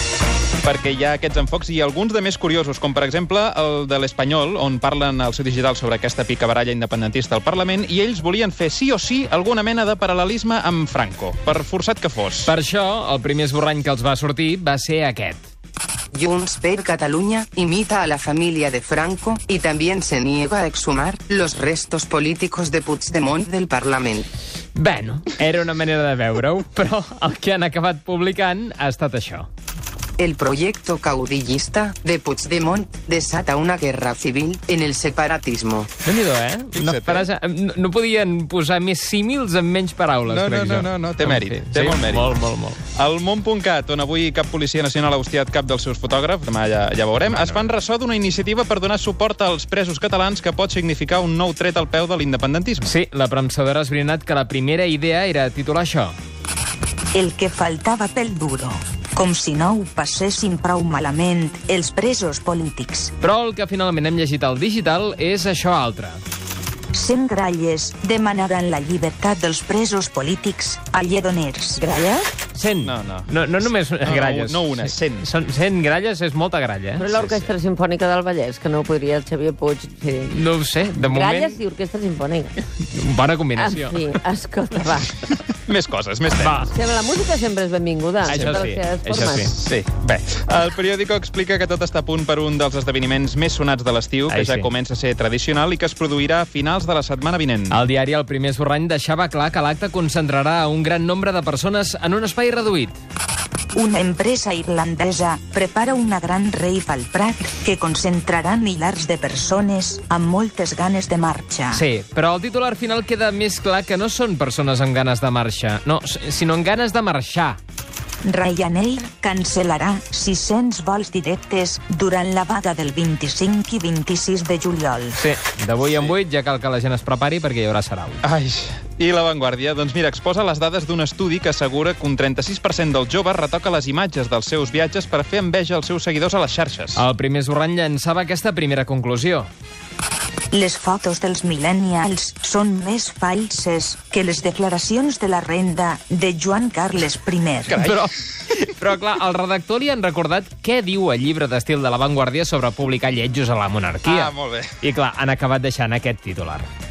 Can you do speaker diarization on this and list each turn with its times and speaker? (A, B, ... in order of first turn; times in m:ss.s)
0:00.6-0:12.5 A
0:12.4-0:15.5 B
0:16.1-0:24.3 C
0:24.8-0:29.5 B
0:30.2-0:35.9 C
0:36.0-0:42.8 B
0:36.7-0:37.3 A
0:40.3-0:42.3 A
0:43.0-0:52.9 A
0:47.3-0:47.7 B
0:52.8-0:56.2 B
0:57.1-1:03.1 D
1:03.2-1:06.2 B
1:06.9-1:11.8 D
1:11.8-1:12.3 E
1:12.5-1:17.0 B
1:12.8-1:13.3 A
1:14.0-1:15.3 A
1:17.0-1:20.4 E
1:17.1-1:17.5 A
1:20.3-1:21.6 B
1:21.0-1:22.6 E
1:22.8-1:24.2 B
1:23.6-1:25.2 E
1:25.7-1:26.7 A
1:26.4-1:26.7 B
1:26.7-1:29.6 E
1:28.3-1:29.6 B
1:28.3-1:28.6 A
1:29.5-1:37.8 A
1:34.3-1:34.7 B
1:37.7-1:43.0 B
1:43.8-1:51.8 D
1:51.7-1:57.6 B
1:58.2-2:05.2 D
2:05.2-2:08.2 B
2:08.2-2:17.0 A
2:17.0-2:19.5 B
2:20.5-2:27.8 D
2:27.7-2:28.1 A
2:27.8-2:36.7 B
2:34.0-2:34.7 A